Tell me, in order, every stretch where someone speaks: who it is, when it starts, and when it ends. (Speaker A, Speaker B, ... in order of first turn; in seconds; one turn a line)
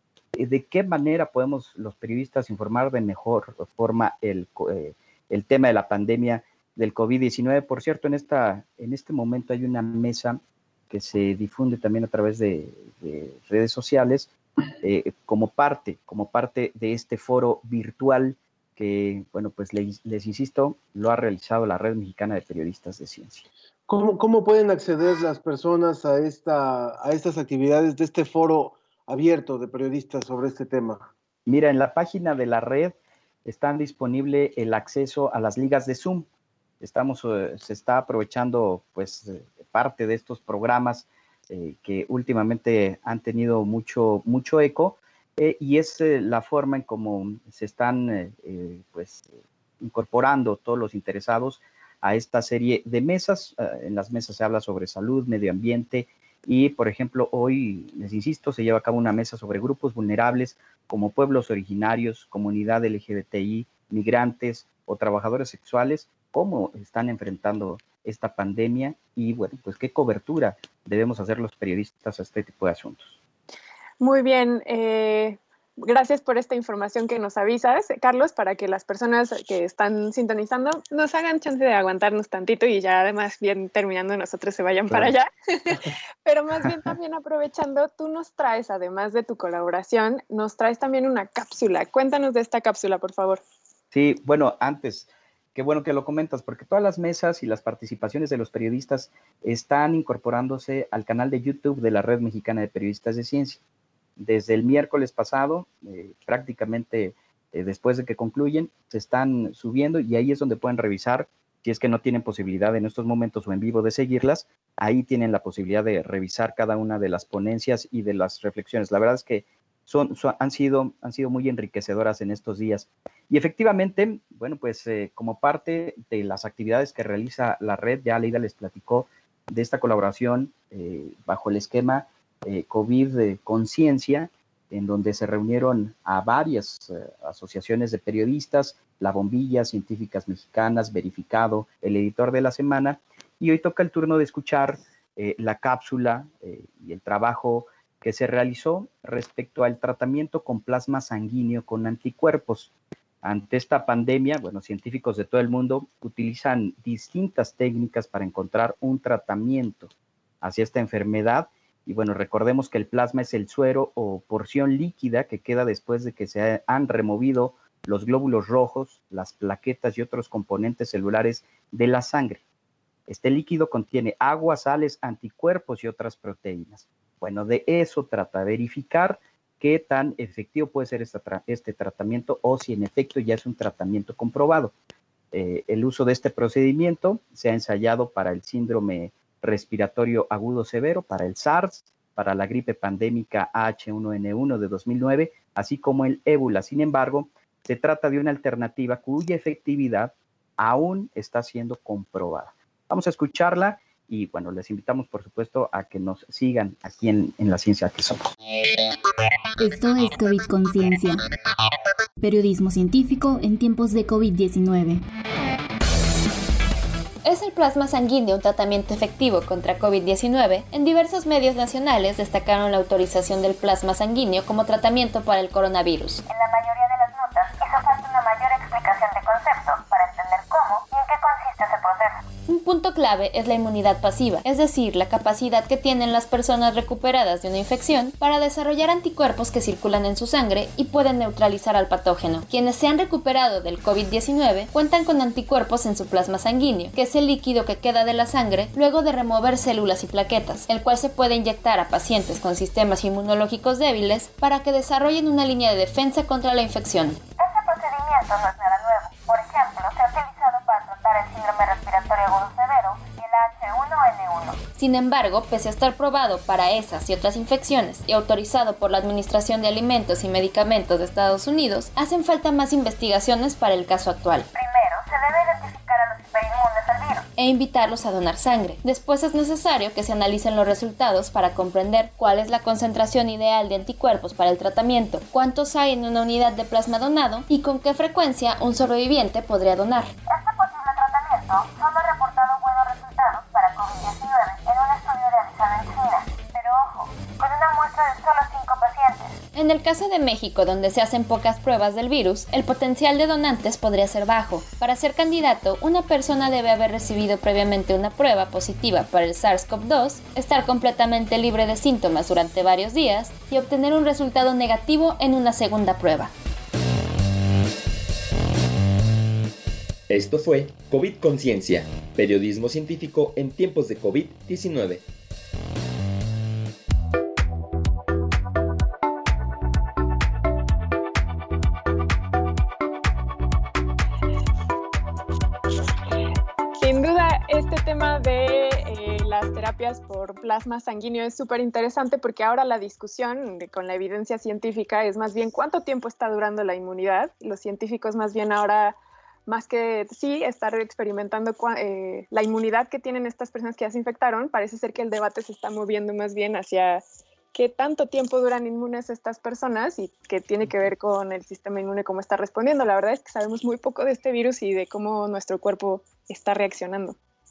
Speaker A: 0.3-10.4
Speaker A: 10.9-14.3
Speaker A: 14.8-23.4
Speaker B: 23.9-31.1
Speaker A: 31.4-36.3
Speaker A: 36.8-73.2
Speaker C: 74.0-93.4
Speaker A: 93.9-103.6
Speaker A: 104.2-152.7
Speaker A: 153.2-159.9
Speaker A: 160.4-172.4
Speaker A: 173.1-184.7
Speaker A: 185.3-208.3
Speaker D: 209.6-211.2
Speaker D: 212.2-215.0
Speaker E: 217.2-226.2
Speaker F: 226.3-232.3
Speaker E: 232.5-257.2
Speaker F: 257.4-264.6
Speaker E: 264.7-274.5
Speaker F: 274.5-277.2
Speaker E: 277.4-290.1
Speaker F: 290.3-299.4
Speaker E: 299.5-316.3
Speaker G: 320.1-325.1
Speaker C: 336.8-367.1